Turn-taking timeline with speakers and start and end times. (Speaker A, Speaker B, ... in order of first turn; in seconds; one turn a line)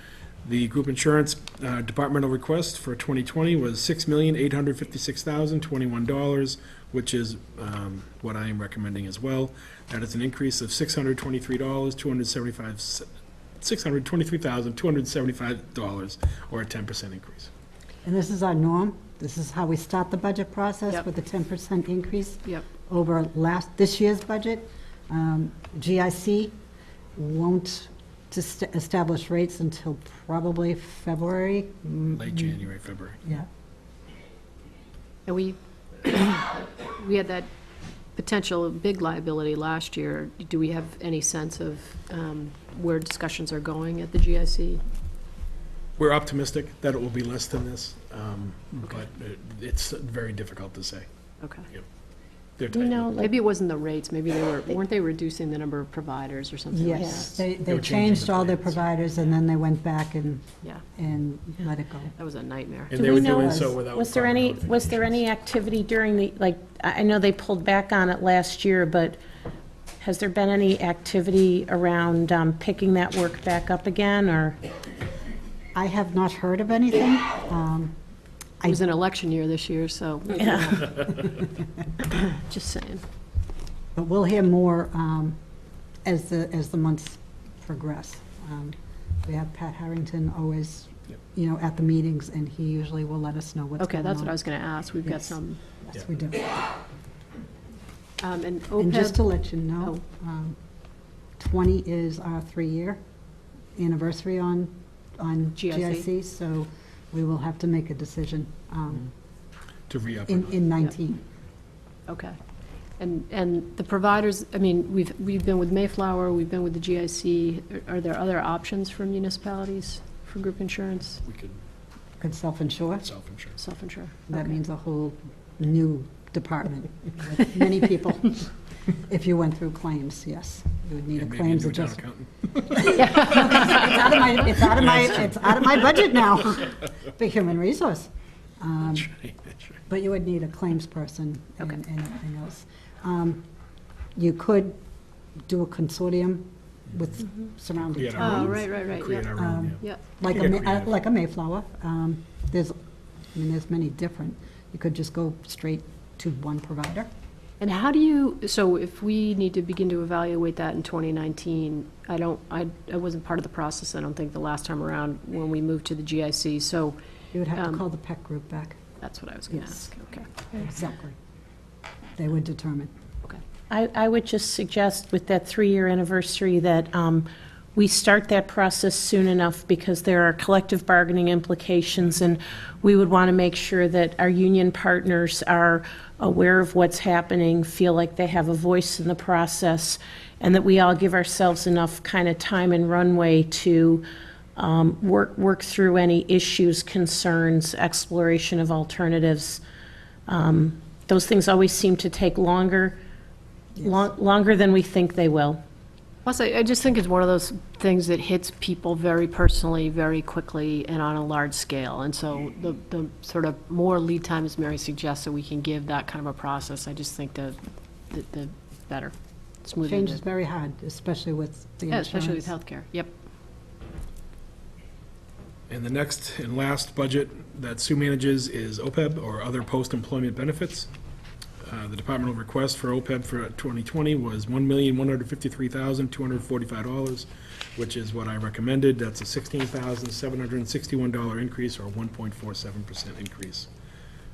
Speaker A: 0.4-17.5
Speaker B: 18.0-26.5
Speaker B: 27.1-32.6
Speaker A: 32.1-33.2
Speaker C: 35.2-37.5
Speaker C: 38.2-44.8
Speaker A: 46.0-51.1
Speaker C: 51.4-51.7
Speaker A: 52.6-53.2
Speaker D: 52.7-53.4
Speaker C: 53.2-57.4
Speaker B: 56.7-62.1
Speaker D: 56.9-57.3
Speaker A: 57.6-58.8
Speaker C: 62.2-62.9
Speaker A: 62.9-65.2
Speaker D: 62.9-69.2
Speaker B: 63.0-63.7
Speaker D: 70.0-74.6
Speaker B: 75.7-78.0
Speaker C: 78.7-81.3
Speaker D: 80.4-80.7
Speaker C: 82.0-83.0
Speaker B: 83.9-85.4
Speaker B: 86.0-94.4
Speaker C: 93.8-95.6
Speaker B: 95.0-96.6
Speaker C: 98.2-99.3
Speaker B: 98.8-100.6
Speaker B: 101.4-103.0
Speaker B: 103.7-109.1
Speaker C: 105.6-106.0
Speaker A: 109.9-110.6
Speaker B: 110.3-111.2
Speaker C: 112.1-112.3
Speaker C: 113.0-121.2
Speaker A: 121.2-121.6
Speaker B: 122.2-123.1
Speaker A: 123.0-123.6
Speaker C: 123.6-124.4
Speaker B: 124.3-128.5
Speaker B: 129.1-132.0
Speaker A: 131.2-133.3
Speaker B: 132.6-139.1
Speaker C: 133.0-133.9
Speaker A: 134.6-136.0
Speaker A: 138.9-139.6
Speaker B: 139.9-143.4
Speaker B: 144.2-144.8
Speaker B: 145.5-148.7
Speaker A: 147.8-150.9
Speaker C: 148.2-150.0
Speaker B: 149.3-152.8
Speaker B: 153.3-157.1
Speaker C: 157.6-167.0
Speaker B: 167.3-168.8
Speaker C: 167.6-167.8
Speaker C: 169.0-170.6
Speaker B: 169.5-169.9
Speaker B: 170.5-171.2
Speaker B: 172.2-172.9
Speaker D: 173.7-194.1
Speaker D: 194.6-199.6
Speaker D: 200.3-203.0
Speaker D: 203.8-205.6
Speaker C: 206.2-217.6
Speaker C: 218.1-220.2
Speaker B: 219.9-222.5
Speaker C: 221.9-223.1
Speaker A: 225.7-230.9
Speaker A: 231.6-243.7